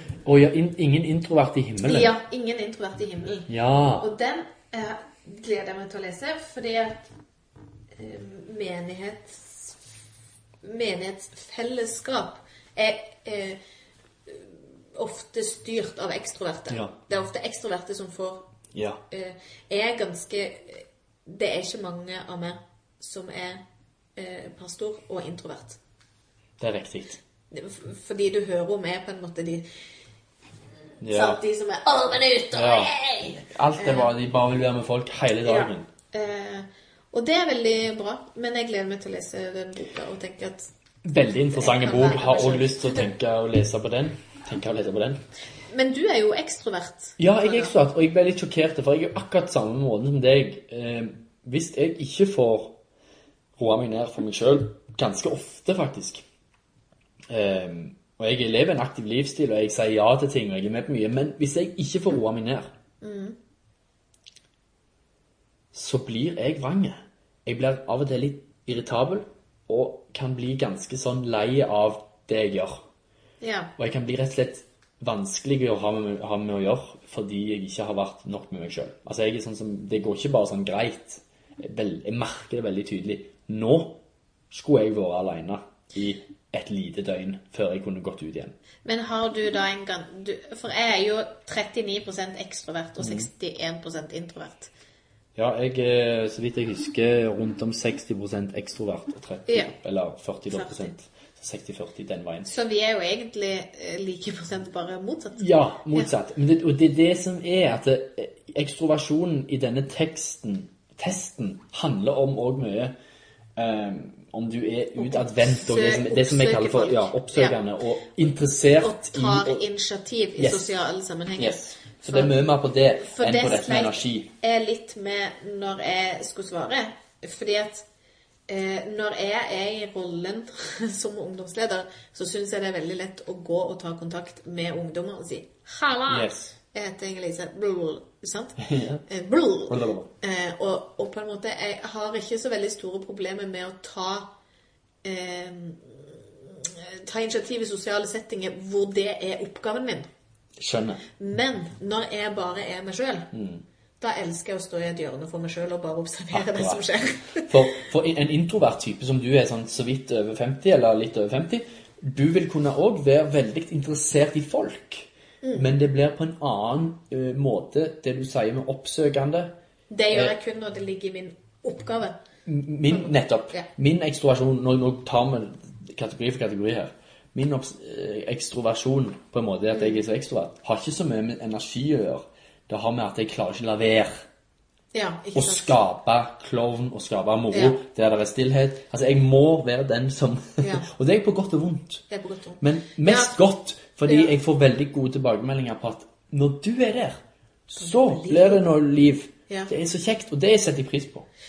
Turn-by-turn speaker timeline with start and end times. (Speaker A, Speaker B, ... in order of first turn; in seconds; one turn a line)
Speaker A: 0.2-2.1
Speaker B: 1.8-7.1
Speaker A: 3.5-4.1
Speaker B: 8.0-9.8
Speaker B: 10.6-13.6
Speaker B: 14.3-18.4
Speaker A: 18.7-19.0
Speaker B: 19.1-23.6
Speaker B: 24.2-25.8
Speaker A: 26.6-27.2
Speaker B: 27.5-29.7
Speaker A: 31.0-31.4
Speaker B: 31.1-34.1
Speaker A: 32.5-35.9
Speaker B: 35.4-40.7
Speaker A: 41.0-45.2
Speaker B: 41.5-43.1
Speaker B: 45.7-47.7
Speaker A: 47.2-52.8
Speaker A: 53.6-56.2
Speaker A: 57.3-62.7
Speaker B: 63.0-63.4
Speaker A: 65.7-72.8
Speaker B: 73.4-73.7
Speaker A: 73.8-84.0
Speaker A: 84.5-88.5
Speaker B: 88.8-94.7
Speaker A: 93.0-93.3
Speaker A: 95.4-102.5
Speaker B: 99.5-99.7
Speaker B: 100.5-100.9
Speaker B: 102.5-106.1
Speaker A: 105.4-113.0
Speaker A: 113.6-119.6
Speaker B: 115.0-117.6
Speaker B: 118.8-122.4
Speaker A: 120.4-120.7
Speaker A: 121.4-124.3
Speaker B: 123.0-127.9
Speaker B: 128.5-144.3
Speaker A: 136.1-136.5
Speaker A: 138.6-139.0
Speaker A: 139.7-140.1
Speaker B: 145.0-150.1
Speaker A: 150.6-151.0
Speaker B: 151.2-153.3
Speaker A: 153.3-153.6
Speaker B: 154.0-157.8
Speaker A: 156.3-156.8
Speaker A: 157.5-169.6
Speaker B: 165.4-165.7
Speaker B: 169.9-172.2
Speaker A: 172.5-184.2
Speaker B: 172.9-173.7
Speaker B: 179.7-180.0
Speaker B: 184.9-185.8
Speaker A: 185.3-192.0
Speaker B: 187.5-187.8
Speaker B: 190.6-190.9
Speaker B: 192.1-193.4
Speaker A: 192.6-201.3
Speaker B: 194.1-194.3
Speaker B: 197.8-198.7